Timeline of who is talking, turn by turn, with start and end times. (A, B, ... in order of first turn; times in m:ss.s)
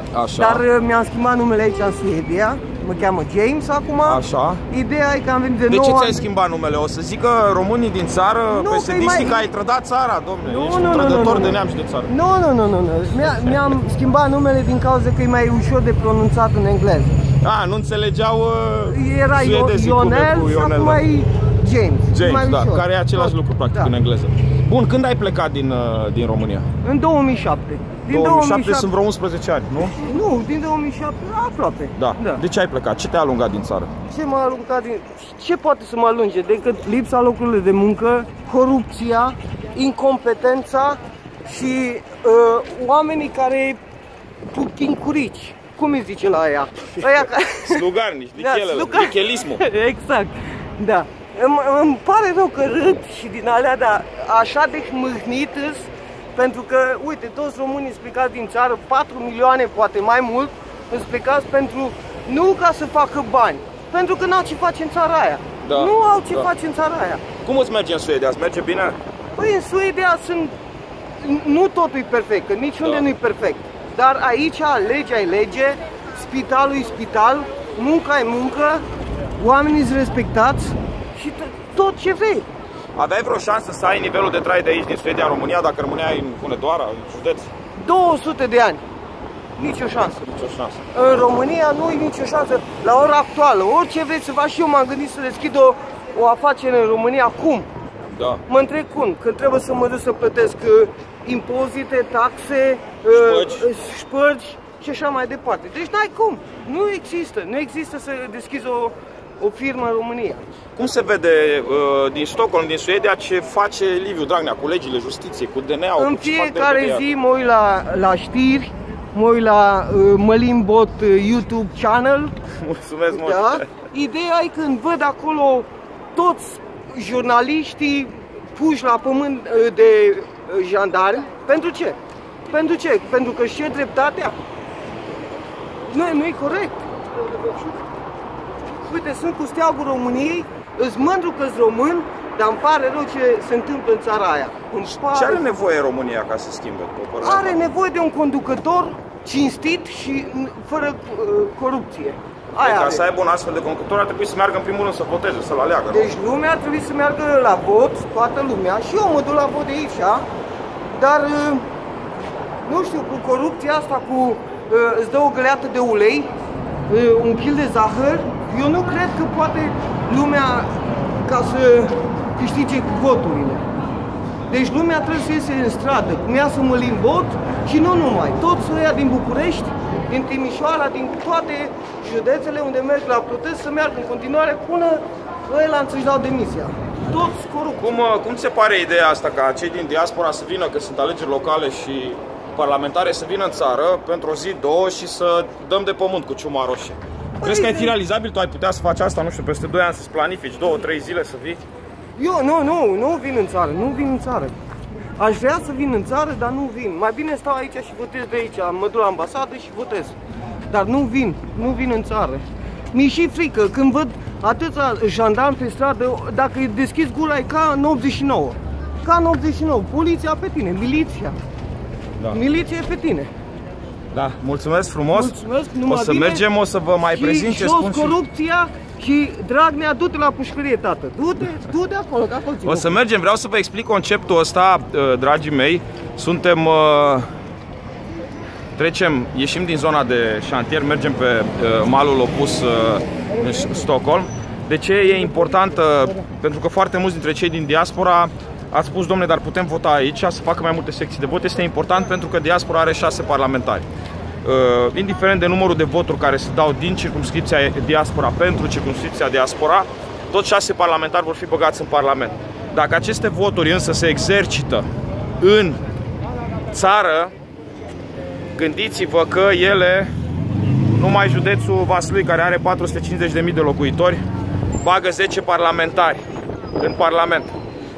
0:00.1-0:00.6 A
0:00.4-0:06.2 B
0:04.0-0:04.6 A
0:05.7-0:12.1 A
0:08.5-0:09.5 B
0:10.4-0:11.6 B
0:12.1-0:17.2 B
0:13.2-0:13.7 A
0:17.4-0:21.0 A
0:18.9-0:23.9 B
0:22.1-0:26.7 A
0:26.8-0:28.9 B
0:28.1-0:30.0 A
0:30.0-0:32.4 B
0:32.0-0:33.9 A
0:34.1-0:43.8 B
0:44.5-0:47.8 B
0:47.0-0:49.6 A
0:48.4-1:07.2 B
1:05.6-1:06.5 A
1:07.4-1:09.0 A
1:09.4-1:10.5 B
1:11.2-1:18.8 B
1:19.4-1:22.5 B
1:23.0-1:27.5 A
1:27.8-1:28.8 B
1:29.6-1:30.3 B
1:30.2-1:30.8 A
1:30.9-1:37.7 B
1:38.1-1:38.4 A
1:38.5-1:50.4 B
1:43.1-1:43.7 A
1:50.8-1:57.0 A
1:56.0-2:02.4 B
2:02.6-2:03.7 A
2:03.1-2:14.4 B
2:15.9-2:17.7 B
2:18.9-2:25.5 B
2:25.1-2:27.6 A
2:27.2-2:33.0 B
2:32.6-2:36.1 A
2:35.9-2:40.2 B
2:40.9-2:41.7 B
2:42.7-2:46.3 B
2:46.9-2:53.6 B
2:54.5-3:07.8 B
3:07.8-3:21.6 A
3:17.4-3:18.0 B
3:22.2-3:24.5 B
3:25.2-3:30.2 B
3:30.7-3:41.4 B
3:42.3-3:43.3 B
3:44.1-3:45.4 A
3:45.1-3:46.4 B
3:45.9-3:48.2 A
3:47.1-3:52.9 B
3:52.6-3:57.3 A
3:58.8-4:13.8 A
4:14.4-4:24.8 A
4:25.4-4:25.8 A
4:26.7-4:27.3 A
4:28.6-4:30.1 A
4:31.0-4:34.2 A
4:34.8-4:36.2 A
4:36.8-4:37.5 A